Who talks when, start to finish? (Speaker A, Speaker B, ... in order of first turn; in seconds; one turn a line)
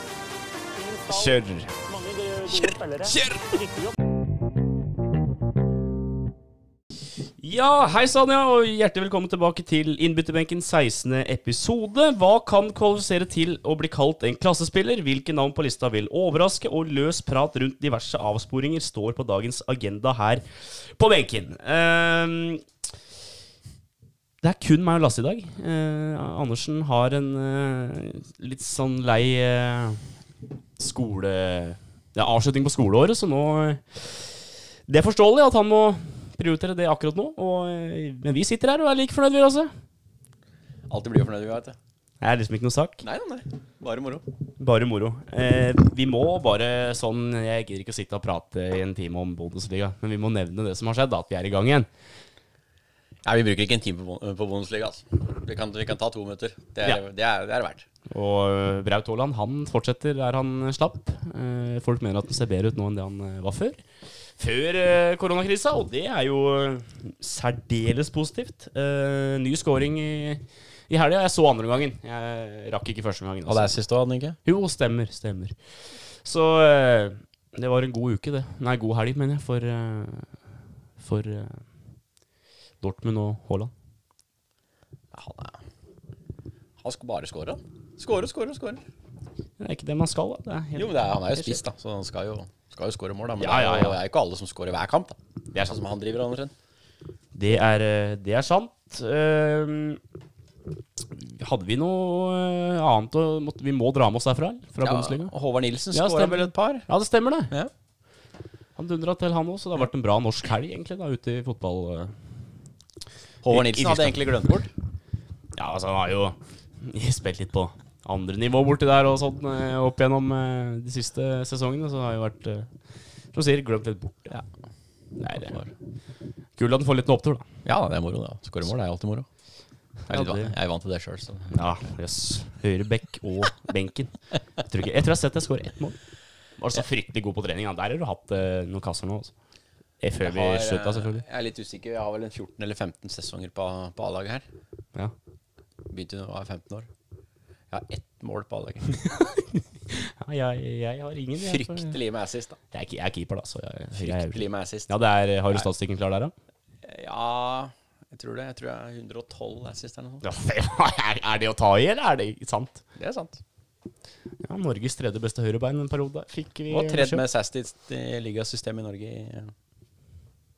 Speaker A: 0.7-3.9
Speaker B: 1.1-1.7
Speaker B: 2.5-3.5
Speaker B: 7.4-22.6
Speaker B: 24.4-30.1
Speaker B: 30.8-39.7
Speaker C: 40.9-41.8
Speaker B: 42.2-43.0
Speaker C: 43.0-44.2
Speaker B: 44.6-51.9
Speaker C: 53.2-57.8
Speaker B: 58.1-63.8
Speaker B: 64.4-73.8
Speaker C: 73.5-74.4
Speaker B: 74.4-75.5
Speaker B: 76.2-80.3
Speaker B: 81.0-81.6
Speaker B: 82.8-83.7
Speaker C: 85.1-85.6
Speaker C: 86.8-88.8
Speaker B: 89.6-91.6
Speaker C: 90.8-96.5
Speaker B: 93.4-94.0
Speaker B: 97.3-100.0
Speaker B: 101.2-105.3
Speaker C: 104.8-106.8
Speaker B: 105.9-107.5
Speaker B: 108.8-112.2
Speaker C: 113.4-114.7
Speaker B: 113.5-114.2
Speaker B: 115.5-122.7
Speaker B: 123.3-124.4
Speaker B: 125.2-125.6
Speaker C: 125.4-125.7
Speaker B: 126.6-127.5
Speaker C: 127.6-129.2
Speaker B: 130.1-130.5
Speaker C: 130.1-131.5
Speaker B: 131.5-136.0
Speaker B: 136.6-139.3
Speaker B: 140.0-141.2
Speaker C: 140.2-144.4
Speaker C: 145.9-146.9
Speaker C: 147.7-148.8
Speaker B: 149.0-151.9
Speaker C: 151.4-152.6
Speaker B: 152.7-156.3
Speaker C: 153.9-154.9
Speaker C: 156.8-160.2
Speaker B: 160.2-162.8
Speaker C: 163.0-163.4
Speaker B: 164.4-167.2
Speaker C: 166.7-169.5